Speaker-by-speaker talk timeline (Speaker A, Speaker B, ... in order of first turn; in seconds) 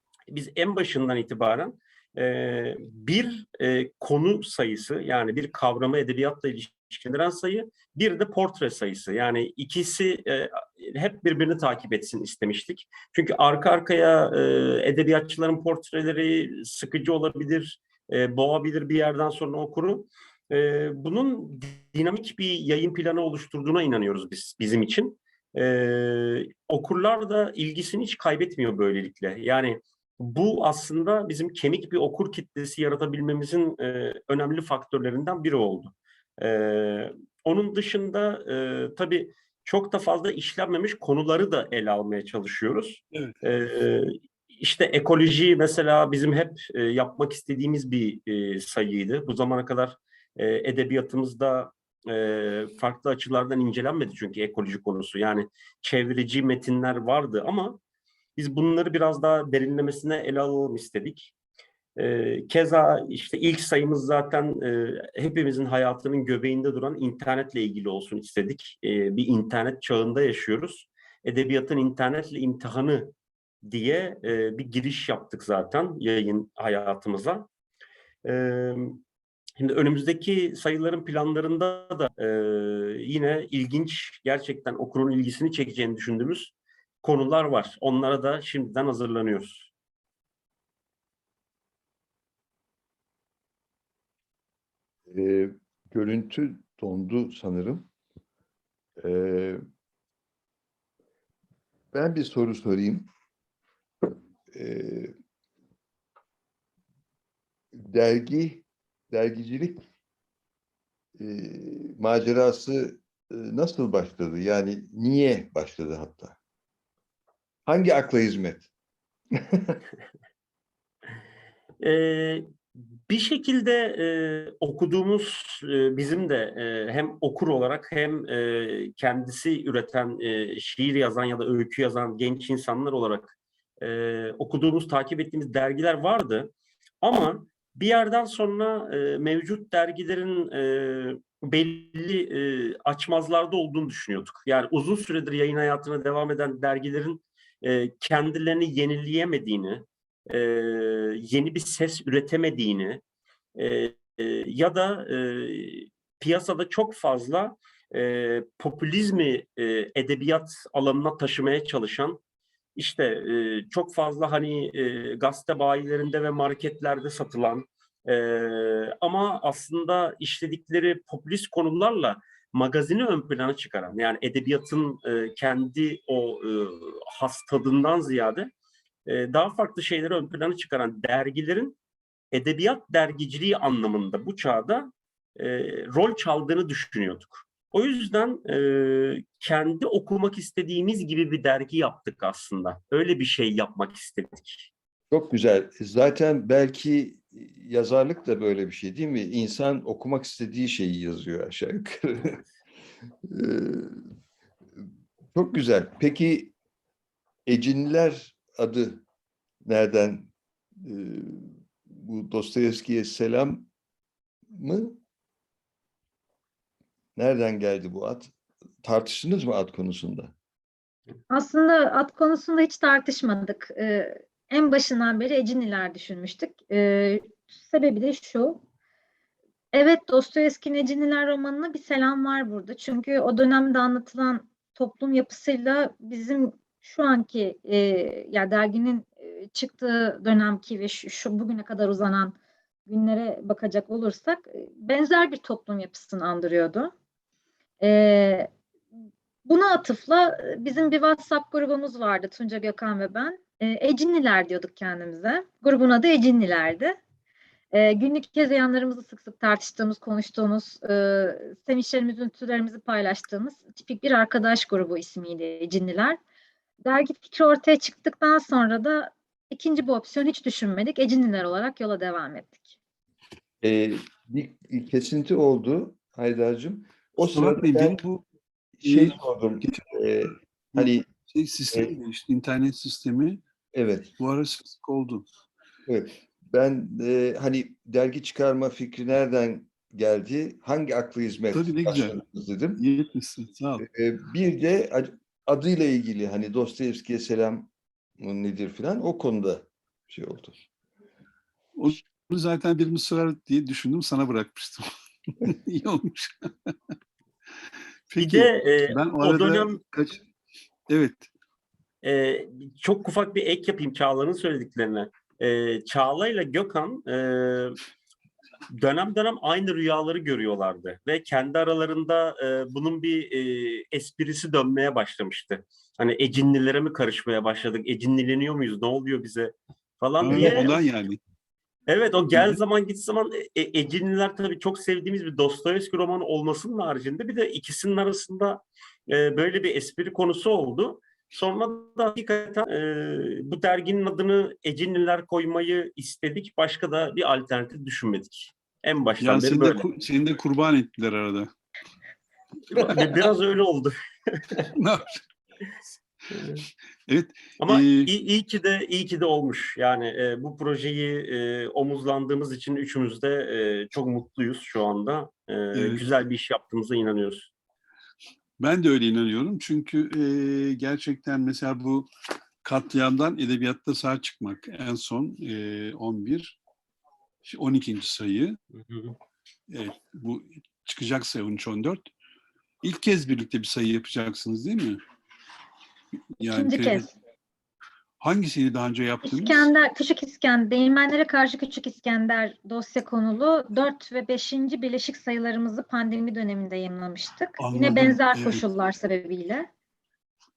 Speaker A: 0.3-57.8, 58.4-61.3, 62.0-77.5, 78.2-79.0, 79.6-89.7, 121.8-122.5, 123.1-153.0, 153.6-162.2, 162.8-178.5, 179.1-181.8, 182.3-194.7, 308.2-309.8, 312.0-317.8, 318.7-330.8, 331.9-349.8, 352.7-354.7, 356.3-356.6, 357.6-367.5, 378.7-379.1
Speaker B: 95.1-97.9, 99.0-99.6, 101.9-103.1, 104.5-105.1, 107.7-109.8, 111.2-116.4, 117.7-118.7, 119.3-119.8, 195.1-202.4, 203.2-204.0, 205.3-206.5, 207.4-209.0, 209.6-213.7, 214.5-215.0, 217.2-218.3, 218.8-220.3, 273.6-278.0, 278.8-281.1, 283.7-284.1, 285.9-292.8, 293.8-300.6
Speaker C: 221.3-228.6, 229.7-242.3, 242.9-246.9, 247.8-248.5, 249.4-257.0, 257.7-266.2, 266.8-272.7, 386.5-387.1, 389.2-399.7
Speaker D: 277.2-278.2, 278.8-279.9, 280.7-283.4, 284.2-285.2, 291.5-292.2, 292.8-293.9, 301.7-304.9, 305.4-306.7, 308.1-310.2, 310.9-311.3, 330.2-331.2, 332.3-332.6, 349.2-351.5, 354.6-355.2, 357.1-358.1, 365.7-366.0, 368.6-372.1, 372.6-376.6, 377.4-378.6, 379.7-382.0, 382.8-385.0, 386.4-387.1, 388.2-389.7, 397.6-398.6